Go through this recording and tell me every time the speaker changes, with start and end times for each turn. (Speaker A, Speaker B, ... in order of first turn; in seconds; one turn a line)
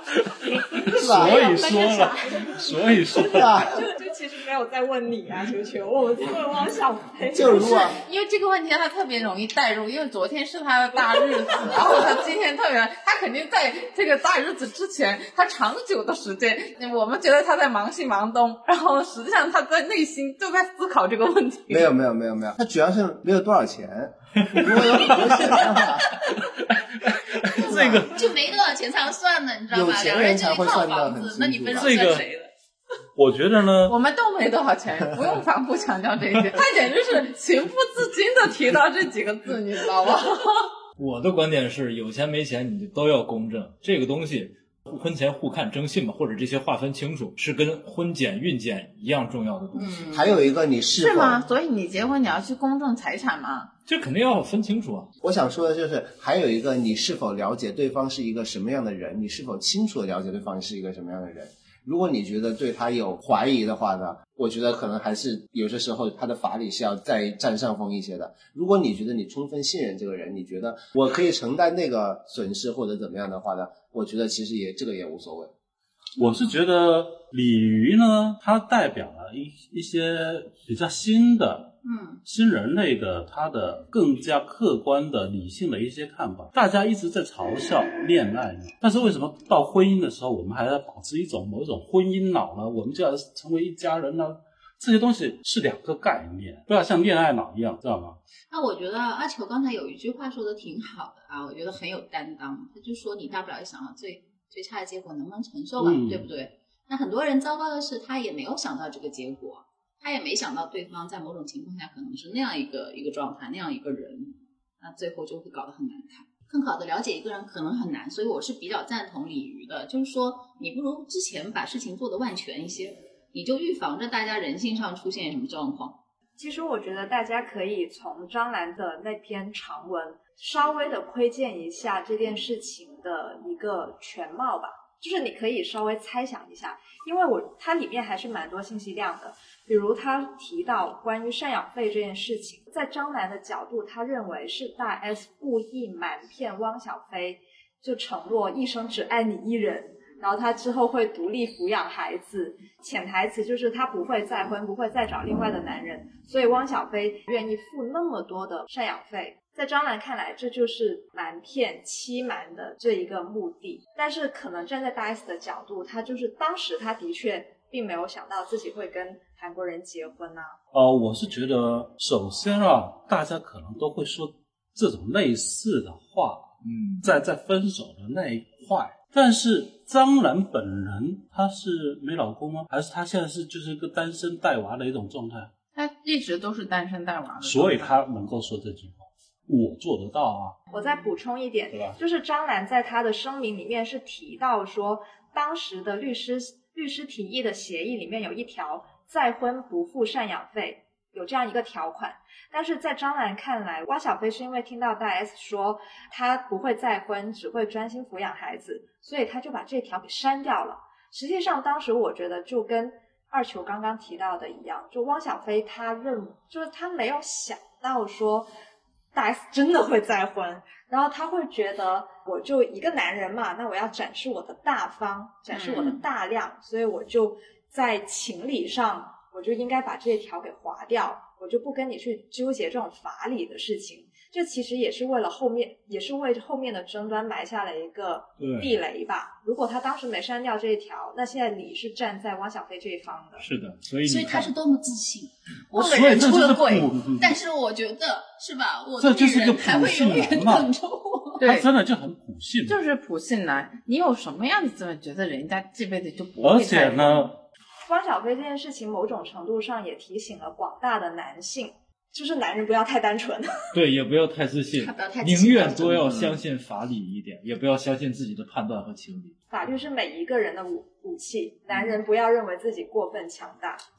Speaker A: 0.4-3.5
Speaker B: 0.9-1.4
Speaker C: 1.1-7.8
Speaker B: 3.4-3.7
Speaker B: 7.3-8.0
Speaker D: 7.7-21.9
Speaker B: 21.7-26.1
Speaker E: 25.0-25.8
Speaker E: 27.6-32.5
Speaker B: 27.6-28.1
Speaker A: 27.6-28.1
Speaker B: 29.7-32.0
Speaker A: 31.8-32.3
Speaker A: 33.1-34.0
Speaker D: 33.9-40.7
Speaker F: 41.0-49.9
Speaker E: 49.7-50.5
Speaker B: 50.1-51.4
Speaker D: 51.0-53.7
Speaker F: 53.9-55.1
Speaker B: 55.2-75.5
Speaker A: 76.2-98.2
Speaker E: 81.8-82.2
Speaker E: 98.5-126.0
Speaker A: 105.8-106.3
Speaker C: 126.4-170.6
Speaker A: 170.7-185.5
Speaker F: 176.6-177.1
Speaker D: 185.7-187.9
Speaker A: 187.4-190.6
Speaker C: 190.7-218.5
Speaker A: 191.7-192.0
Speaker C: 219.1-243.4
Speaker E: 225.5-226.0
Speaker F: 238.4-238.8
Speaker F: 243.4-244.5
Speaker E: 244.0-251.4
Speaker A: 245.8-247.3
Speaker A: 249.0-250.7
Speaker A: 251.4-252.8
Speaker D: 251.4-251.7
Speaker D: 252.7-257.2
Speaker A: 256.4-257.4
Speaker C: 257.9-263.5
Speaker F: 263.7-269.4
Speaker E: 264.7-266.4
Speaker C: 269.5-273.8